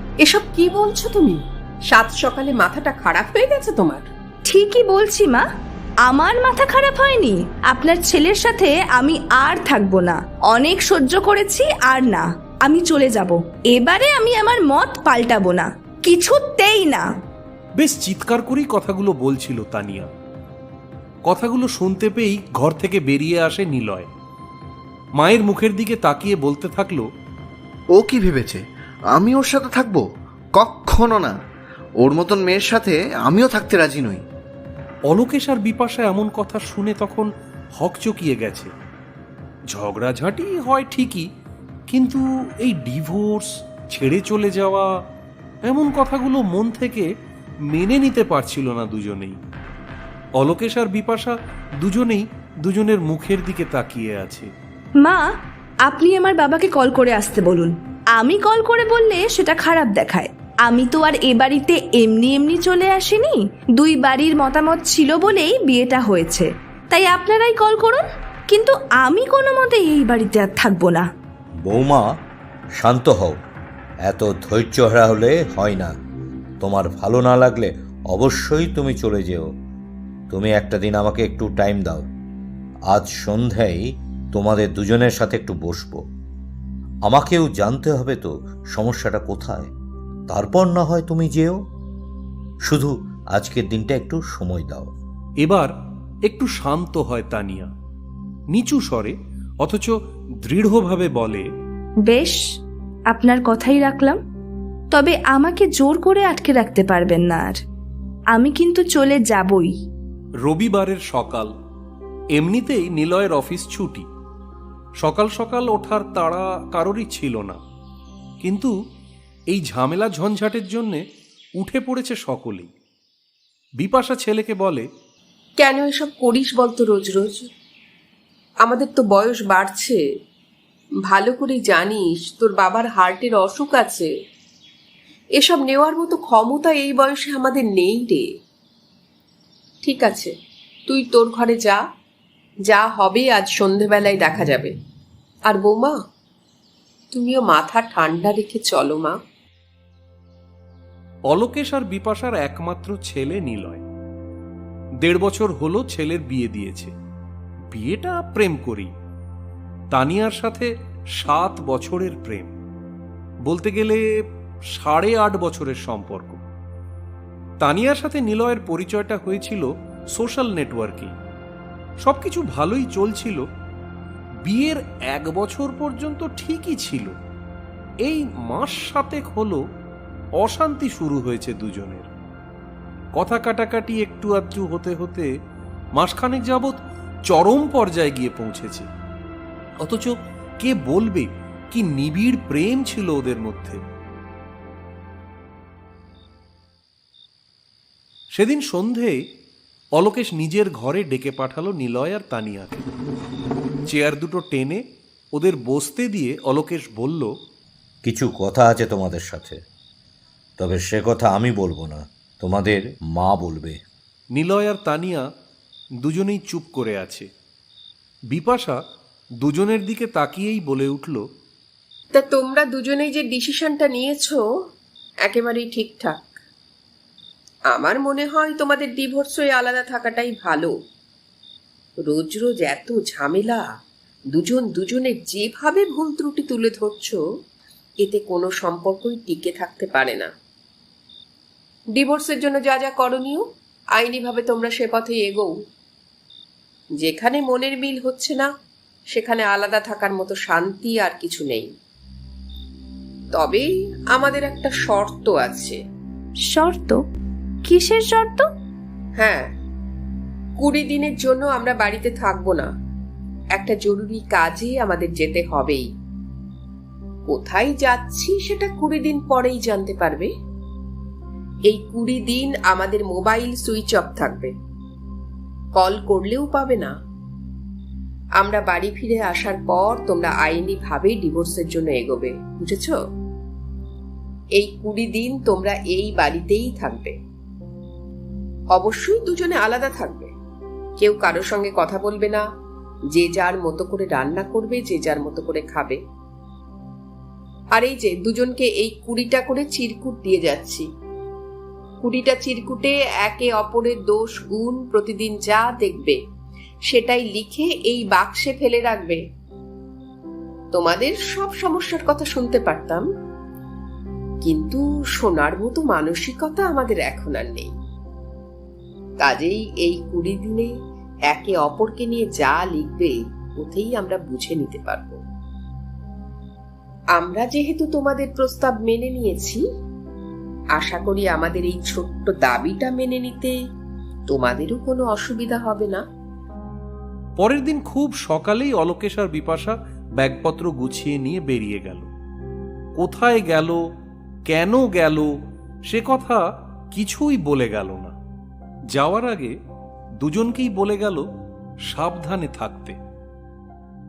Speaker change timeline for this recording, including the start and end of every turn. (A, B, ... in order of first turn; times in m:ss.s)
0:00.2-0:04.0 A
0:04.5-0:05.4 B
0:06.0-0:17.1 B
0:17.8-0:20.1 C
0:21.3-0:24.1 C
0:25.2-0:27.0 C
0:27.9-0:28.6 D
0:29.1-0:30.0 D
0:30.6-0:31.3 D
0:32.0-0:34.2 D
0:35.1-0:38.7 C
0:39.7-0:41.2 C
0:41.9-0:44.9 C
0:45.6-0:47.1 C
0:47.7-0:49.4 C
0:50.4-0:54.5 C
0:55.0-0:55.3 B
0:55.8-1:11.0 B
1:11.7-1:12.0 E
1:12.8-1:13.4 E
1:14.1-1:15.9 E
1:16.6-1:19.4 E
1:20.3-1:22.1 E
1:22.9-1:23.8 E
1:24.3-1:26.0 E
1:27.1-1:29.7 E
1:30.3-1:31.6 E
1:32.6-1:34.9 E
1:35.4-1:35.7 C
1:36.2-1:37.7 C
1:38.5-1:41.4 C
1:42.0-1:42.4 B
1:43.1-1:44.2 B
1:44.9-1:47.6 B
1:48.3-1:49.7 B
1:50.4-1:51.5 C
1:52.3-1:54.0 C
1:55.0-1:57.6 C
1:58.4-1:58.7 C
1:59.5-2:01.0 C
2:01.6-2:02.7 C
2:03.8-2:04.8 C
2:05.6-2:07.5 A
2:08.6-2:10.0 A
2:11.1-2:14.1 A
2:15.4-2:18.3 A
2:19.8-2:20.3 A
2:20.9-2:21.8 A
2:22.7-2:24.8 A
2:25.5-2:26.0 A
2:27.1-2:29.2 A
2:31.3-2:33.8 C
2:35.0-2:36.9 C
2:37.7-2:38.9 C
2:39.9-2:42.5 C
2:43.4-2:44.0 C
2:44.7-2:46.4 C
2:47.6-2:51.2 C
2:52.0-2:53.4 C
2:54.4-2:57.1 C
2:58.0-2:59.6 C
3:00.4-3:02.1 C
3:03.2-3:05.3 C
3:06.0-3:06.8 C
3:07.3-3:08.9 C
3:09.8-3:13.8 C
3:18.3-3:19.2 C
3:20.0-3:22.8 C
3:23.9-3:24.8 C
3:25.3-3:27.3 C
3:28.0-3:29.6 E
3:30.6-3:33.8 E
3:34.3-3:35.2 C
3:36.0-3:37.2 C
3:38.3-3:38.8 C
3:39.4-3:41.2 C
3:42.1-3:44.4 A
3:45.2-3:46.3 A
3:47.7-3:50.7 A
3:52.0-3:53.7 A
3:54.3-3:57.2 A
3:58.0-4:00.3 A
4:02.0-4:03.4 A
4:04.0-4:05.5 A
4:07.0-4:08.5 A
4:09.1-4:11.7 A
4:13.3-4:15.8 A
4:16.5-4:17.0 B
4:17.6-4:18.4 B
4:19.2-4:19.5 A
4:20.6-4:22.7 A
4:23.5-4:25.9 A
4:27.3-4:30.3 A
4:31.7-4:34.5 A
4:35.8-4:36.9 A
4:38.4-4:43.0 A
4:44.6-4:47.2 A
4:48.7-4:50.3 A
4:51.0-4:52.4 A
4:53.1-4:56.0 A
4:57.8-5:00.8 A
5:02.0-5:06.2 A
5:06.9-5:09.2 A
5:10.7-5:13.0 A
5:14.4-5:17.7 A
5:19.2-5:20.7 A
5:21.3-5:25.2 A
5:27.2-5:29.6 A
5:30.8-5:33.5 A
5:34.3-5:36.0 A
5:37.4-5:42.1 C
5:43.0-5:43.8 C
5:44.5-5:45.3 C
5:45.9-5:48.1 C
5:48.9-5:49.5 C
5:50.2-5:51.2 C
5:51.9-5:53.0 C